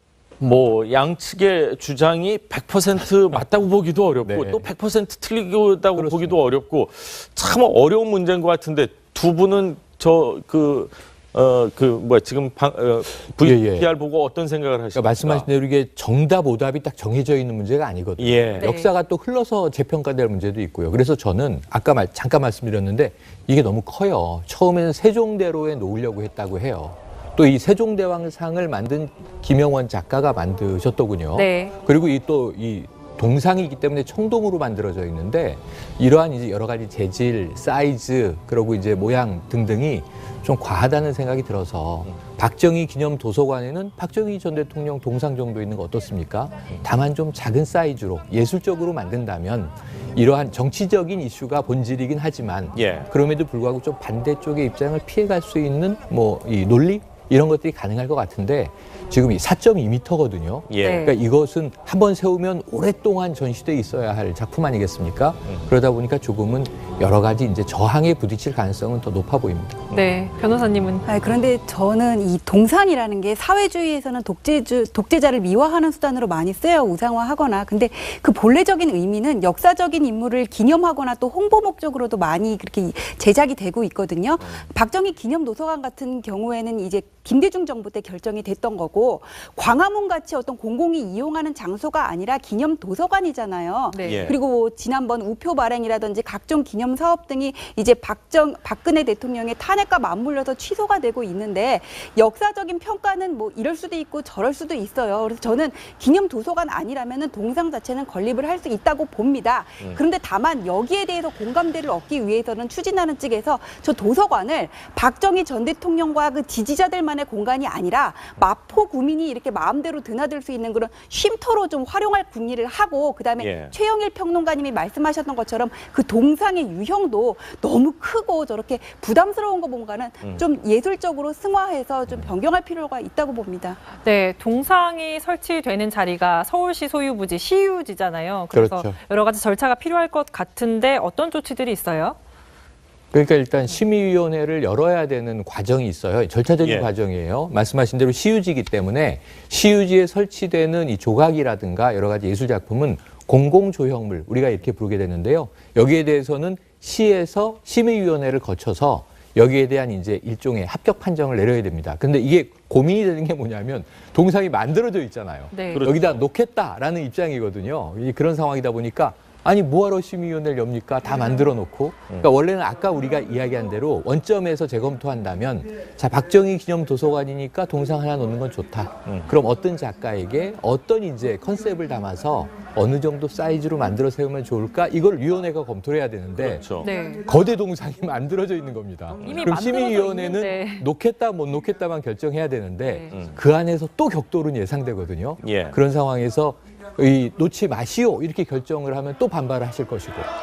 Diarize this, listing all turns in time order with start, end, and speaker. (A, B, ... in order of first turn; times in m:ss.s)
0:00.4-0:15.5 A
0:04.2-0:04.6 B
0:06.0-0:06.4 B
0:13.4-0:13.9 B
0:15.0-1:09.8 B
0:18.2-0:18.7 A
0:18.6-0:18.9 C
0:31.3-0:31.7 C
0:52.8-0:53.1 A
1:00.7-1:01.0 A
1:00.8-1:01.1 C
1:09.9-1:11.0 C
1:11.1-2:13.8 D
1:33.9-1:34.3 C
1:34.0-1:34.4 A
2:03.4-2:03.7 A
2:14.0-2:22.2 C
2:18.5-2:19.0 B
2:23.1-3:06.7 B
2:26.6-2:26.9 A
2:45.5-2:45.9 C
2:45.7-2:46.2 A
2:59.1-2:59.3 A
3:06.4-3:06.9 A
3:06.8-3:07.3 C
3:07.2-3:20.3 B
3:09.2-3:10.9 C
3:12.8-3:13.1 C
3:15.4-3:15.8 A